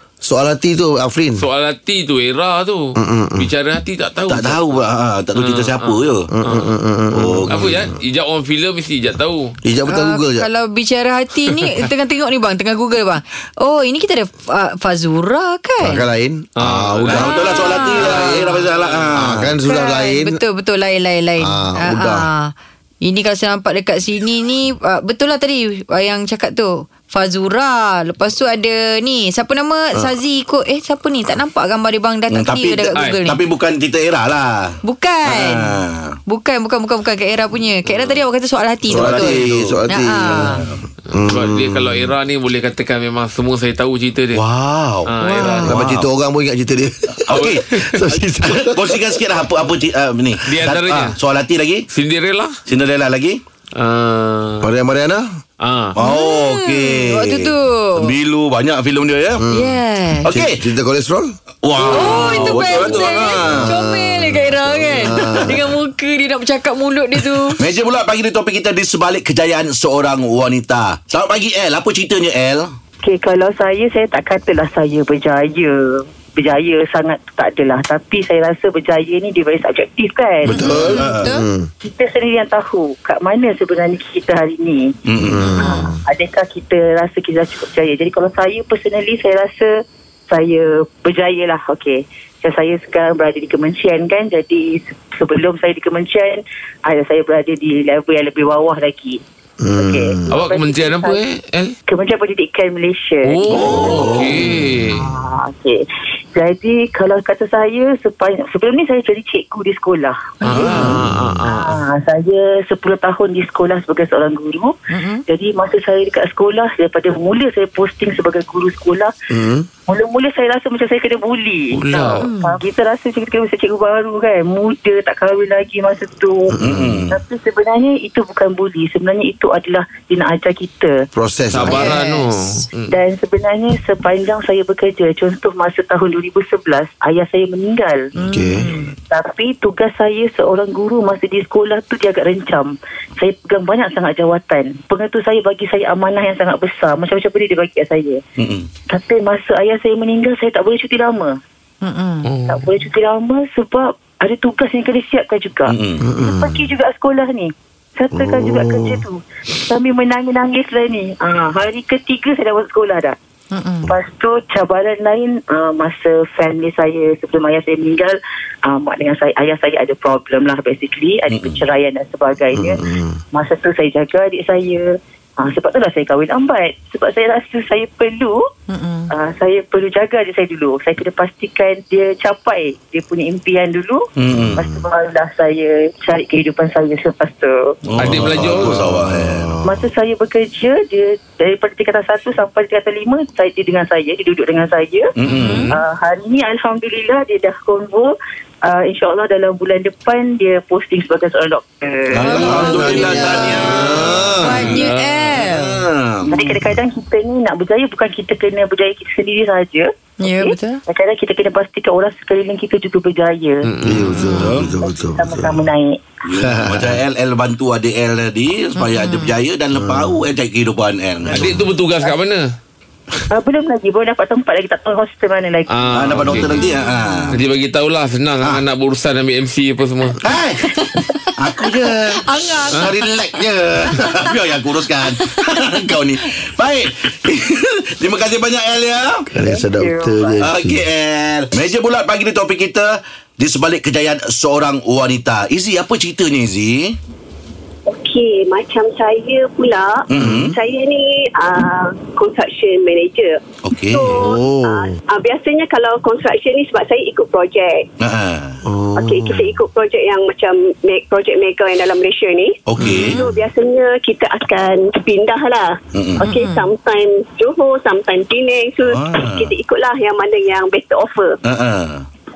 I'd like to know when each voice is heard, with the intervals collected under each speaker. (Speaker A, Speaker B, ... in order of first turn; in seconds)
Speaker A: 0.2-1.4, 3.0-3.5, 6.3-7.8, 9.6-10.5, 15.8-16.5, 19.1-20.4, 21.4-22.3, 38.9-42.1, 45.7-49.2, 54.6-55.3, 59.4-59.8, 60.3-61.3, 63.4-65.7, 80.5-81.7, 85.2-86.0, 99.6-100.3, 103.7-104.6, 111.0-111.3, 119.3-119.7, 126.5-127.1, 131.1-131.9, 138.2-138.7, 156.0-156.7, 158.1-159.0, 172.5-173.2, 184.3-184.8, 188.0-189.8, 202.4-204.7, 213.8-215.6, 216.4-217.0, 219.7-220.2, 239.3-240.8, 250.2-250.5, 254.1-254.9, 258.6-259.5, 262.8-263.2
Speaker B: 1.4-4.6, 5.3-6.7, 7.5-9.6, 16.6-19.1, 37.9-38.1, 41.1-44.4, 45.1-45.7, 47.3-48.1, 50.4-51.2, 51.9-52.6, 53.8-54.7, 55.6-55.9, 61.8-63.2, 100.3-101.8, 103.2-105.1, 110.4-111.8, 121.7-122.2, 131.5-132.9, 152.2-152.7, 188.0-188.9, 195.2-195.8, 203.8-205.4, 213.6-214.4, 221.3-222.4, 225.7-226.6, 227.3-230.2
Speaker C: 4.3-6.3, 7.1-7.8, 16.6-19.5, 32.3-36.1, 38.9-39.8, 40.3-40.8, 44.3-45.1, 45.7-46.1, 47.2-51.9, 52.7-53.4, 55.9-59.4, 60.2-60.6, 61.6-63.7, 67.5-72.7, 80.6-81.3, 85.0-85.5, 103.7-104.1, 126.6-127.2, 148.4-148.7, 155.7-156.0, 171.3-171.6, 184.2-184.6, 187.8-189.6, 195.2-195.8, 202.1-204.8, 205.4-206.3, 214.4-214.7, 216.2-221.6, 225.9-227.4, 230.2-230.8, 231.4-239.2, 240.4-247.0, 250.1-250.5, 253.6-254.2, 258.0-258.6, 262.7-263.2, 265.9-266.2, 268.9-269.5, 271.4-272.1
Speaker D: 9.9-16.0, 17.1-18.6, 19.6-33.4, 34.8-40.6, 45.2-45.7, 56.0-58.1, 59.5-60.3, 61.8-67.6, 80.6-81.4, 85.6-85.9, 110.4-111.0, 114.9-115.2, 122.2-122.6, 131.7-132.6, 138.2-138.9, 151.8-152.3, 163.5-163.9, 178.7-179.1, 195.3-195.7, 202.2-203.8, 204.4-205.8, 210.2-210.8, 218.8-219.3, 226.5-227.1, 230.6-233.0, 233.9-234.3, 235.1-236.3, 266.2-266.6
Speaker E: 73.0-80.9, 81.8-85.0, 85.5-99.2, 99.7-101.2, 101.9-105.8, 106.3-114.7, 115.3-119.1, 119.9-131.1, 132.9-138.1, 139.1-148.2, 148.9-151.4, 152.5-163.2, 163.9-178.4, 179.1-187.8, 189.6-195.1, 195.7-198.1, 198.6-203.3, 206.3-213.6, 214.7-216.0, 223.3-225.7, 239.4-240.4
Speaker F: 247.9-257.9, 258.9-271.4